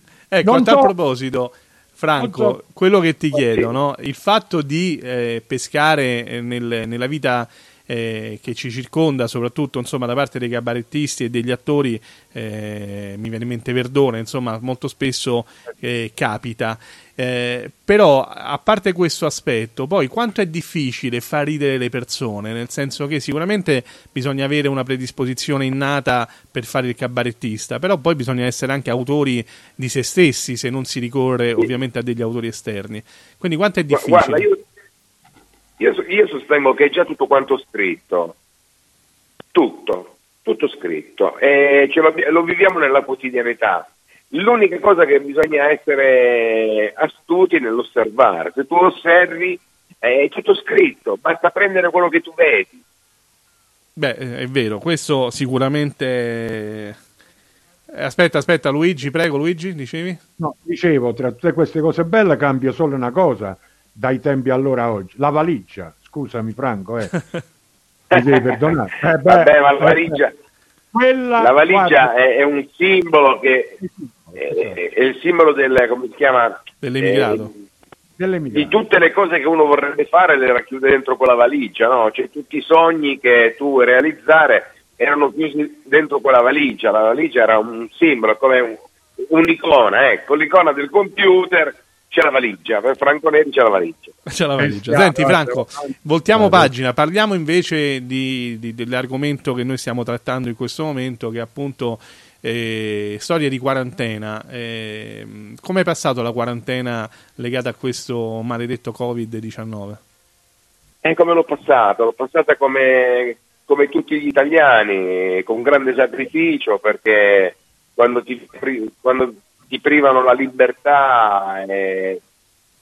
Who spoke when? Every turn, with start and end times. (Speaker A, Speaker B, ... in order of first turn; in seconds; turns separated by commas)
Speaker A: 0.3-34.5, Speaker B: 0.4-0.9, Speaker B: 2.2-2.6, Speaker B: 3.4-3.7, Speaker C: 33.9-34.6, Speaker C: 35.8-38.4, Speaker C: 39.5-52.8, Speaker A: 54.0-57.0, Speaker A: 57.9-60.2, Speaker B: 60.4-67.1, Speaker A: 67.1-67.4, Speaker C: 68.1-68.6, Speaker B: 68.1-70.2, Speaker C: 69.2-70.3, Speaker B: 70.9-72.1, Speaker C: 71.4-73.8, Speaker B: 73.8-74.8, Speaker C: 74.4-77.5, Speaker A: 76.8-77.5, Speaker B: 78.2-78.8, Speaker C: 78.5-94.2, Speaker A: 94.3-110.0, Speaker B: 94.6-96.7, Speaker C: 111.0-122.2